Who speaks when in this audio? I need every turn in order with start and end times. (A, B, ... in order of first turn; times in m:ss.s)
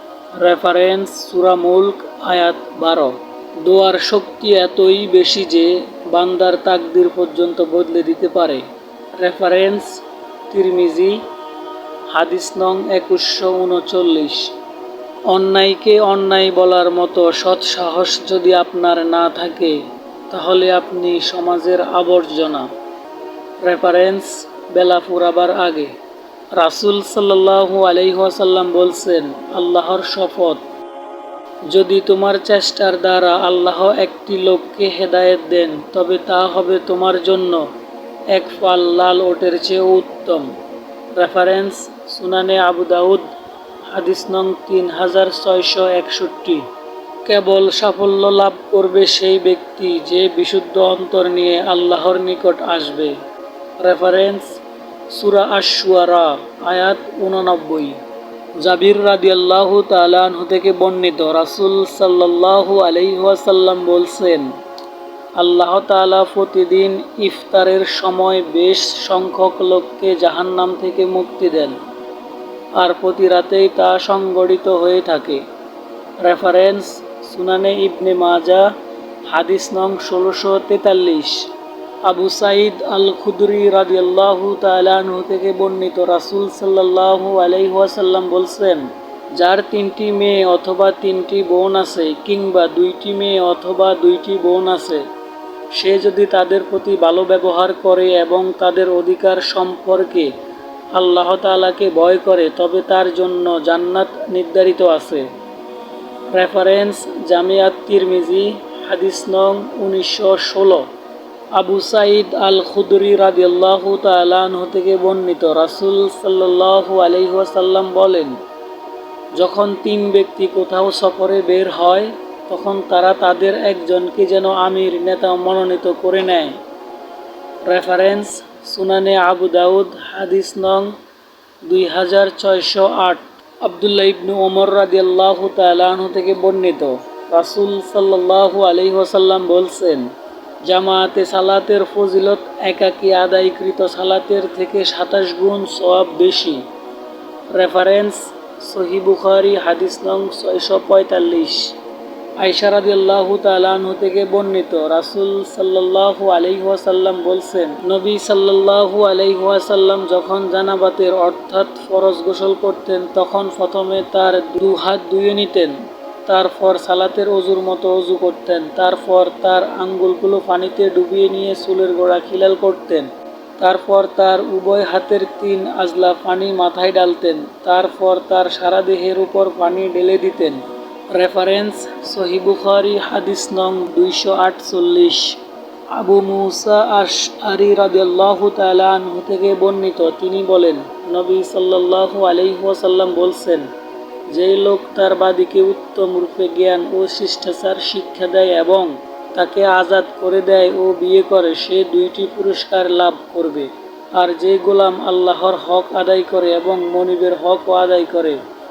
0:00.3-0:08.6 A
0:09.2-0:11.2 A
0:12.1-0:14.5 A
0:15.3-0:19.8 A
0:20.3-0:22.7 A
0:23.6-0:25.9 A
0:26.5-0:30.6 A
0:31.7-0:37.7 A
0:38.3-0:40.5 A
0:41.2-0:43.3 A
0:43.9-0:46.7 A
0:47.2-0:53.1 A
0:53.8-0:54.6 A
0:55.1-0:58.0 A
0:58.6-1:04.5 A
1:05.4-1:11.8 A
1:12.8-1:15.4 A
1:16.2-1:18.7 A
1:19.3-1:21.5 A
1:22.0-1:28.9 A
1:29.4-1:35.0 A
1:35.7-1:40.3 A
1:40.9-1:45.3 A
1:46.3-1:50.8 A
1:51.6-1:58.3 A
1:59.4-2:06.6 A
2:07.7-2:10.9 A
2:11.7-2:20.1 A
2:20.6-2:26.6 A
2:27.5-2:31.7 A
2:32.4-2:53.1 A
2:53.6-3:00.6 A
3:01.1-3:05.4 A
3:05.9-3:13.7 A
3:14.3-3:28.4 A